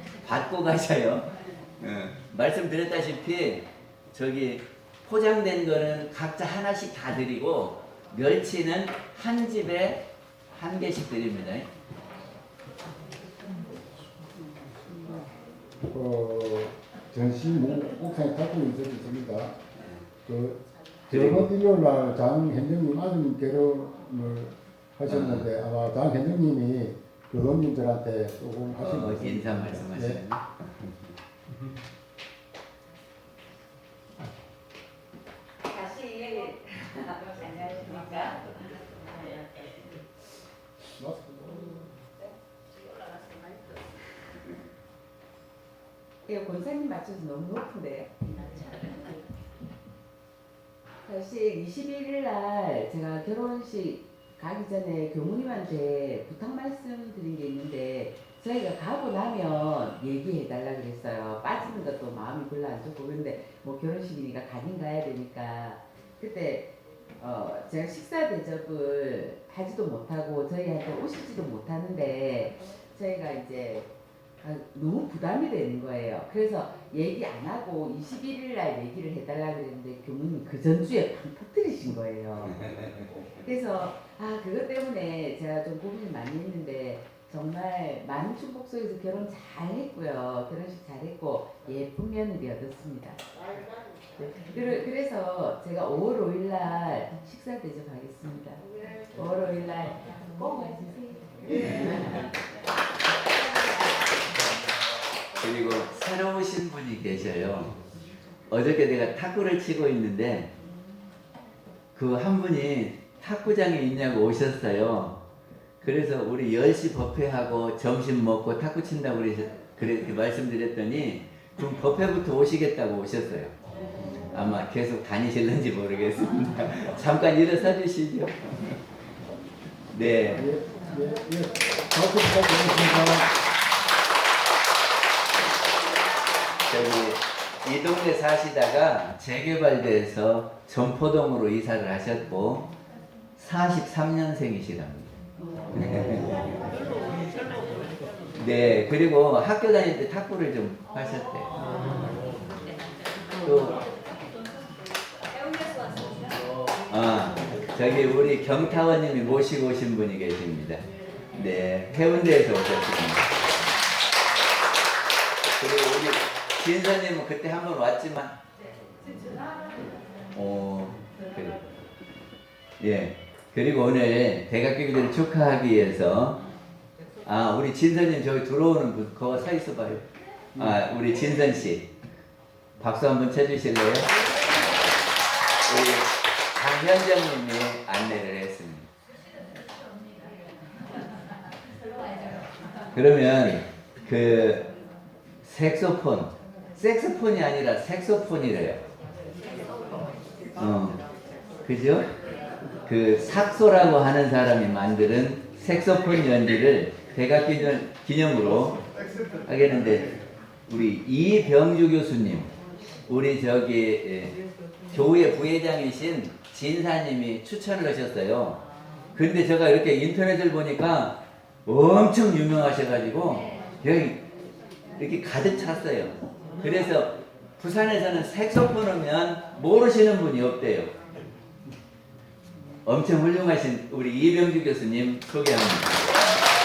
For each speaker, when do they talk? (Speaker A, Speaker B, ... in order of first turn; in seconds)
Speaker A: 0.2-11.7, 21.1-21.5, 25.1-25.5, 28.8-30.4, 82.5-83.0, 105.4-107.8, 108.5-110.5, 111.9-115.2, 115.8-123.5, 124.3-128.8, 129.9-130.5, 136.7-142.7, 143.4-145.2, 145.7-146.5, 148.4-151.6, 153.4-153.8, 156.9-163.5, 165.6-168.4, 170.3-171.6, 172.8-176.4, 177.2-181.9, 182.8-184.1, 185.6-188.9, 192.9-194.7, 195.4-198.8, 200.6-201.0, 201.6-202.1, 202.8-208.8, 209.4-212.5, 213.1-214.4, 214.9-218.6, 219.1-224.2, 225.0-230.9, 232.8-236.1
Speaker B: 15.8-19.5, 20.2-30.2, 41.0-41.8, 130.3-133.3
Speaker C: 35.6-39.9, 43.1-43.3, 46.2-49.2, 51.0-73.9, 74.4-82.7, 83.4-93.2, 94.2-102.3